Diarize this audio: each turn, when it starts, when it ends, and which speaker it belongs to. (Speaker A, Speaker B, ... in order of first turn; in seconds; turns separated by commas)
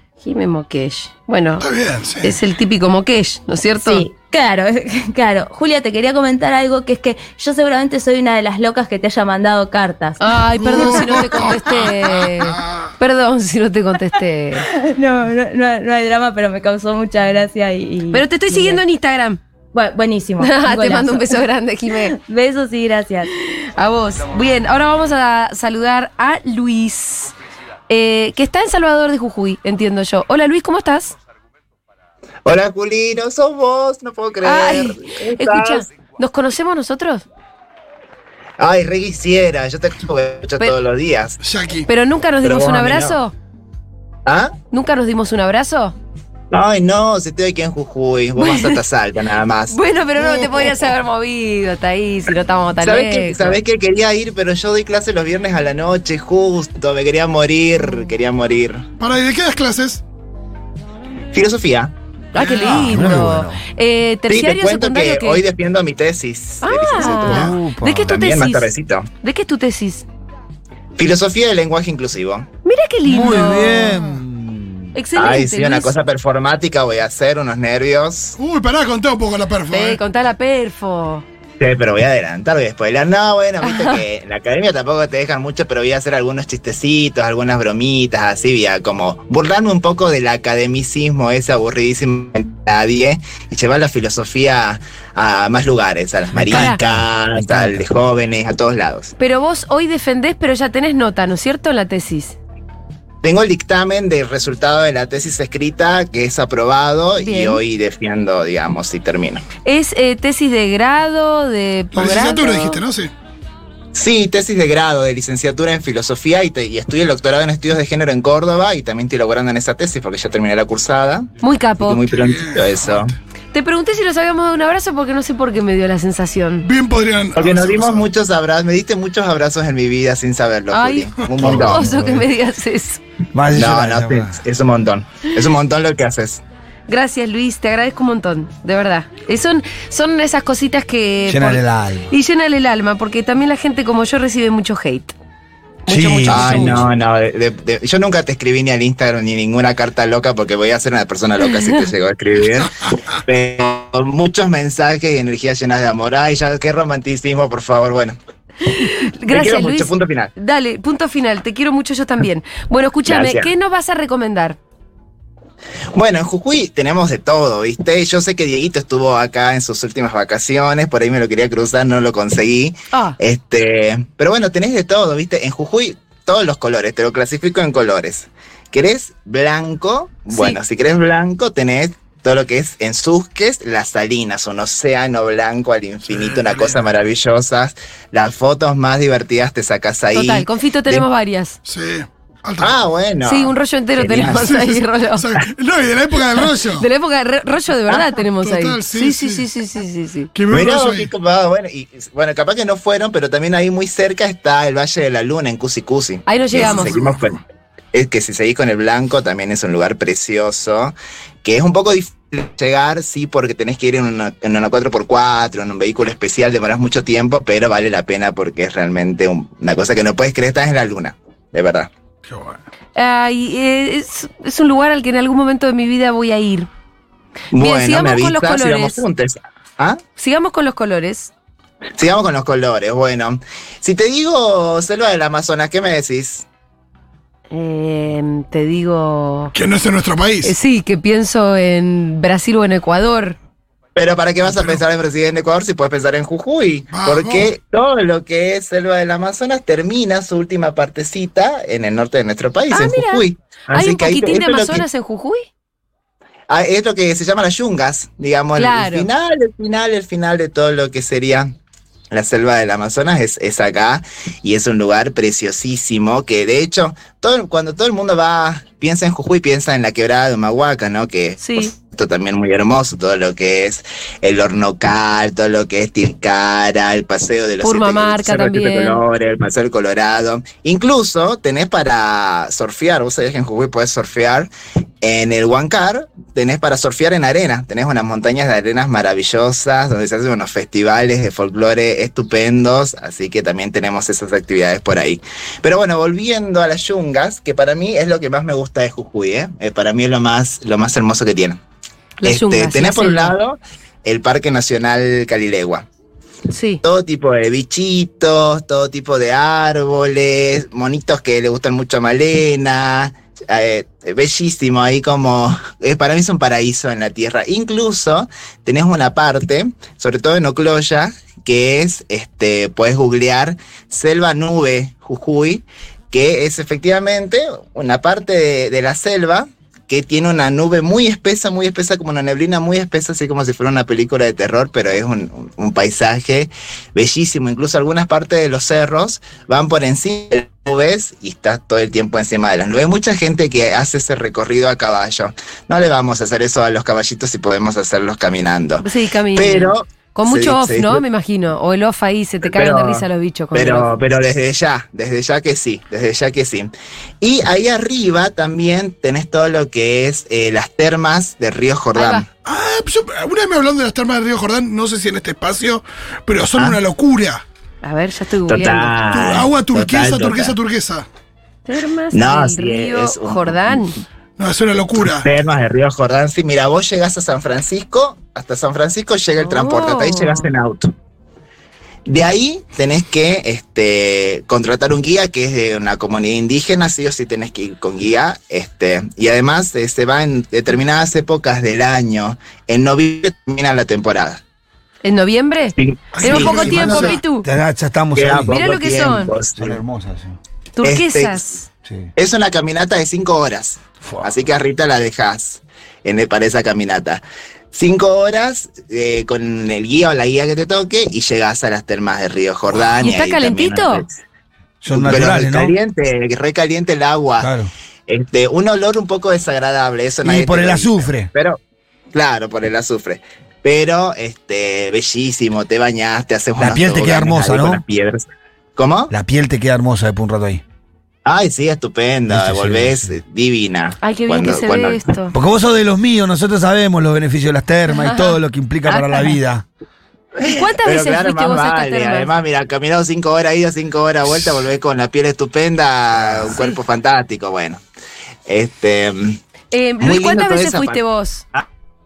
Speaker A: 0.2-1.7, Speaker B: 1.6-2.4, Speaker A: 2.2-4.0, Speaker C: 3.8-10.2, Speaker A: 10.2-14.7, Speaker B: 10.6-12.9, Speaker C: 10.8-11.2, Speaker C: 14.7-18.8, Speaker A: 18.1-19.4, Speaker C: 19.7-21.4, Speaker A: 20.4-22.2, Speaker C: 22.1-23.3, Speaker A: 23.4-27.3, Speaker A: 27.9-31.2, Speaker D: 32.5-35.8, Speaker A: 34.4-37.2, Speaker D: 38.6-41.4, Speaker B: 41.4-41.9, Speaker A: 41.9-43.3, Speaker D: 42.4-43.2, Speaker D: 44.3-44.5, Speaker A: 44.7-46.0, Speaker D: 46.5-49.8, Speaker A: 48.4-48.8, Speaker A: 49.7-53.6, Speaker D: 50.3-50.7, Speaker D: 52.8-58.9, Speaker B: 59.0-60.0, Speaker D: 61.3-61.9, Speaker A: 62.3-65.4, Speaker B: 62.4-62.7, Speaker E: 62.4-63.6, Speaker D: 64.3-69.1, Speaker A: 66.6-70.1, Speaker E: 67.0-68.1, Speaker D: 71.0-72.5, Speaker A: 72.7-74.0, Speaker E: 73.0-75.0, Speaker A: 74.9-75.9, Speaker D: 75.2-78.4, Speaker B: 78.4-80.0, Speaker A: 79.7-81.2, Speaker D: 81.6-99.1, Speaker A: 83.6-84.0, Speaker E: 96.3-97.8, Speaker A: 96.5-96.8, Speaker A: 99.2-102.4, Speaker D: 103.2-109.4, Speaker A: 107.2-107.6, Speaker A: 109.7-112.8, Speaker B: 111.9-113.1, Speaker D: 113.9-121.3, Speaker A: 121.4-122.0, Speaker D: 121.8-123.1, Speaker B: 122.1-123.1, Speaker A: 123.5-126.7, Speaker B: 126.6-128.1, Speaker D: 127.4-131.8, Speaker A: 130.7-133.0, Speaker E: 131.4-132.3, Speaker E: 133.3-134.4, Speaker D: 133.5-136.4, Speaker A: 136.9-145.1, Speaker E: 141.3-142.1, Speaker A: 145.9-146.9, Speaker E: 145.9-146.9, Speaker D: 146.3-158.2, Speaker A: 151.4-151.8, Speaker A: 158.7-164.6, Speaker D: 159.3-160.3, Speaker D: 163.1-163.5, Speaker D: 165.9-191.1, Speaker A: 180.3-180.6, Speaker B: 186.1-186.8, Speaker A: 190.1-191.6, Speaker B: 191.6-192.8, Speaker D: 192.6-194.5, Speaker A: 193.2-195.3, Speaker B: 194.4-196.9, Speaker A: 196.8-200.3, Speaker B: 198.4-199.5, Speaker B: 200.3-201.1, Speaker D: 200.5-207.4, Speaker A: 206.3-206.9, Speaker B: 206.6-207.4, Speaker D: 207.9-221.9, Speaker B: 222.3-222.6, Speaker A: 222.9-226.7, Speaker D: 227.5-230.0, Speaker A: 227.6-229.0, Speaker A: 230.2-231.3, Speaker D: 232.0-236.4, Speaker A: 237.5-239.5, Speaker B: 239.5-240.6, Speaker A: 240.4-243.4, Speaker D: 244.0-254.8, Speaker B: 244.5-244.8, Speaker B: 246.9-247.5, Speaker A: 252.7-255.4, Speaker D: 256.5-261.6, Speaker A: 258.6-259.1, Speaker D: 262.1-284.5, Speaker A: 271.4-271.7, Speaker A: 277.6-279.0, Speaker D: 285.0-301.6, Speaker A: 302.2-303.3, Speaker D: 302.2-305.9, Speaker A: 306.5-306.8, Speaker D: 306.8-351.0, Speaker A: 348.8-353.9, Speaker D: 352.4-353.0, Speaker D: 353.5-362.3, Speaker A: 361.9-362.2, Speaker B: 362.4-367.4, Speaker A: 367.8-368.9, Speaker D: 368.5-370.6, Speaker B: 369.1-371.1, Speaker A: 371.7-373.9, Speaker D: 372.1-373.9, Speaker B: 374.4-375.3, Speaker D: 375.1-380.9, Speaker A: 379.4-380.5, Speaker D: 382.1-394.4, Speaker A: 395.0-397.5, Speaker D: 395.8-397.2, Speaker B: 396.1-397.2, Speaker E: 397.4-398.6, Speaker D: 398.2-399.8, Speaker A: 398.5-399.3, Speaker E: 399.6-400.4, Speaker A: 400.8-401.7, Speaker D: 400.8-401.4, Speaker D: 402.2-414.1, Speaker E: 404.0-404.3, Speaker A: 413.0-414.0, Speaker E: 414.8-415.8, Speaker D: 414.9-417.5, Speaker E: 417.4-417.7, Speaker D: 418.1-421.6, Speaker E: 420.2-421.3, Speaker D: 422.1-428.2, Speaker E: 426.6-427.8, Speaker D: 428.8-429.1, Speaker E: 429.1-430.6, Speaker D: 431.2-435.0, Speaker E: 432.3-433.2, Speaker A: 434.0-435.3, Speaker E: 435.3-439.7, Speaker A: 437.9-439.3, Speaker D: 440.4-447.8, Speaker A: 440.4-442.3, Speaker D: 448.5-449.4, Speaker A: 449.7-451.4, Speaker D: 450.0-451.0